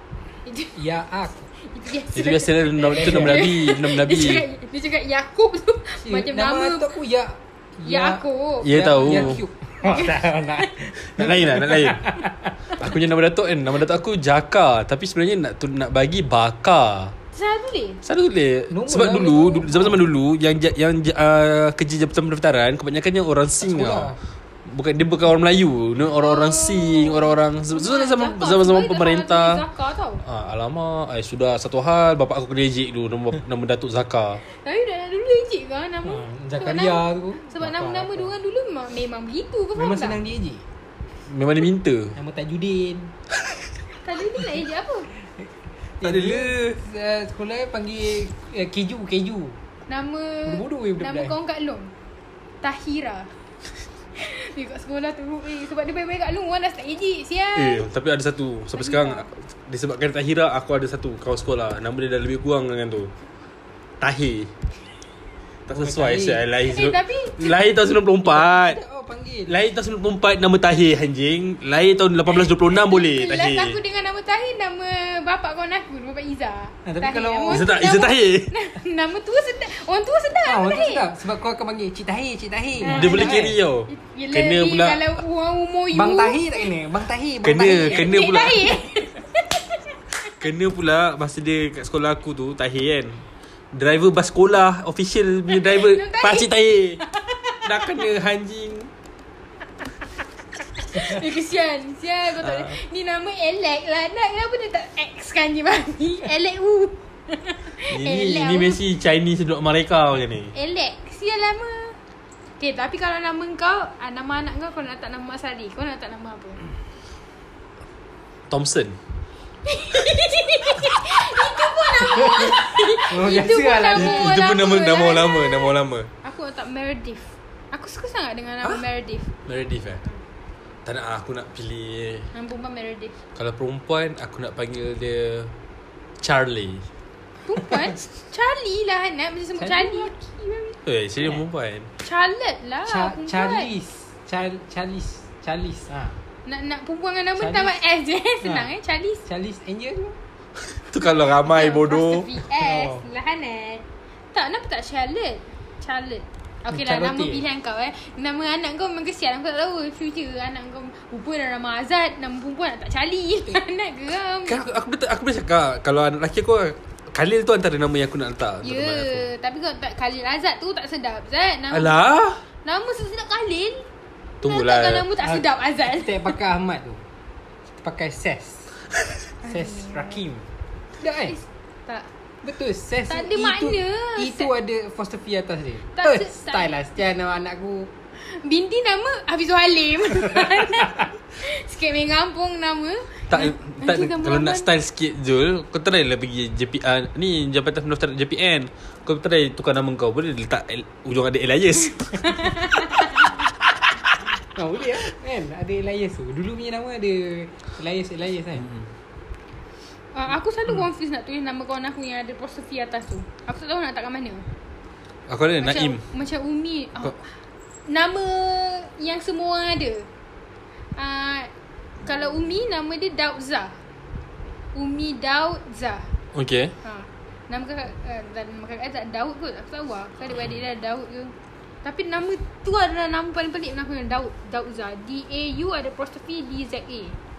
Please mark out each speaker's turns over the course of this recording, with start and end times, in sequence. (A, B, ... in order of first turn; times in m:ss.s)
0:00.4-0:00.8 A
0:00.8-0:01.5 B
0:01.6-0:06.9 A
0:02.1-0:04.4 C
0:02.8-0:03.5 B
0:06.0-0:12.5 B
0:07.8-0:10.7 A
0:08.6-0:09.4 C
0:11.0-0:12.1 C
0:12.8-0:17.1 C
0:17.3-0:18.0 A
0:18.0-0:24.1 C
0:18.7-0:20.0 B
0:23.6-0:24.2 B
0:24.7-0:29.6 C
0:26.1-0:30.2 A
0:30.2-0:34.4 C
0:34.5-0:40.2 A
0:36.0-0:38.3 B
0:39.7-0:40.6 B
0:41.3-0:42.1 C
0:42.1-0:43.1 B
0:44.0-0:45.1 A
0:46.0-0:49.6 B
0:46.0-0:46.6 C
0:49.9-0:51.9 A
0:50.4-0:51.3 B
0:52.6-0:53.3 A
0:54.2-0:57.8 A
0:57.5-1:03.1 C
0:58.8-0:59.2 A
1:04.0-1:04.5 C
1:05.7-1:08.8 C
1:05.7-1:06.4 B
1:06.6-1:07.6 A
1:08.2-1:09.5 B
1:09.4-1:13.8 C
1:12.3-1:21.0 A
1:16.8-1:17.7 B
1:17.5-1:18.5 C
1:20.4-1:23.6 B
1:22.8-1:26.7 A
1:22.8-1:25.2 C
1:25.9-1:28.1 B
1:27.4-1:28.8 C
1:27.7-1:30.3 A
1:30.2-1:33.2 C
1:33.7-1:37.0 C
1:35.5-1:36.5 A
1:37.0-1:37.9 A
1:37.6-1:38.9 C
1:40.9-1:48.8 A
1:42.4-1:42.7 C
1:47.9-1:50.5 C
1:50.5-1:52.0 A
1:52.6-1:56.6 A
1:58.5-1:59.0 C
1:59.6-2:09.3 A
2:02.0-2:04.3 B
2:03.9-2:06.1 C
2:09.4-2:10.0 C
2:10.8-2:12.3 C
2:12.3-2:13.1 A
2:13.3-2:15.5 C
2:16.2-2:16.8 C
2:17.4-2:20.8 A
2:19.6-2:20.4 B
2:20.8-2:21.9 C
2:22.0-2:23.7 A
2:22.8-2:26.2 B
2:26.4-2:29.2 A
2:27.4-2:27.8 B
2:28.4-2:28.7 B
2:29.2-2:30.2 B
2:30.7-2:32.3 C
2:31.4-2:44.6 A
2:32.5-2:33.0 B
2:36.7-2:37.4 B
2:44.5-2:49.3 C
2:48.6-2:52.0 A
2:51.7-2:52.4 C
2:52.6-2:53.9 A
2:54.4-2:55.1 C
2:54.4-2:56.3 A
2:55.2-2:57.0 B
2:57.7-2:58.7 B
2:59.4-3:00.2 A
2:59.5-3:00.4 B
3:01.0-3:01.4 B
3:01.3-3:02.1 A
3:02.4-3:07.9 B
3:03.1-3:04.5 A
3:05.9-3:06.7 A
3:08.2-3:14.7 A
3:13.3-3:23.1 C
3:22.2-3:23.3 A
3:24.4-3:28.6 B
3:28.6-3:28.9 C
3:30.1-3:34.5 A
3:35.3-3:36.0 C
3:35.6-3:37.3 A
3:37.9-3:40.1 A
3:41.0-3:41.5 A
3:42.0-3:43.8 A
3:44.7-3:46.1 A
3:46.3-3:46.7 C
3:46.8-3:57.2 A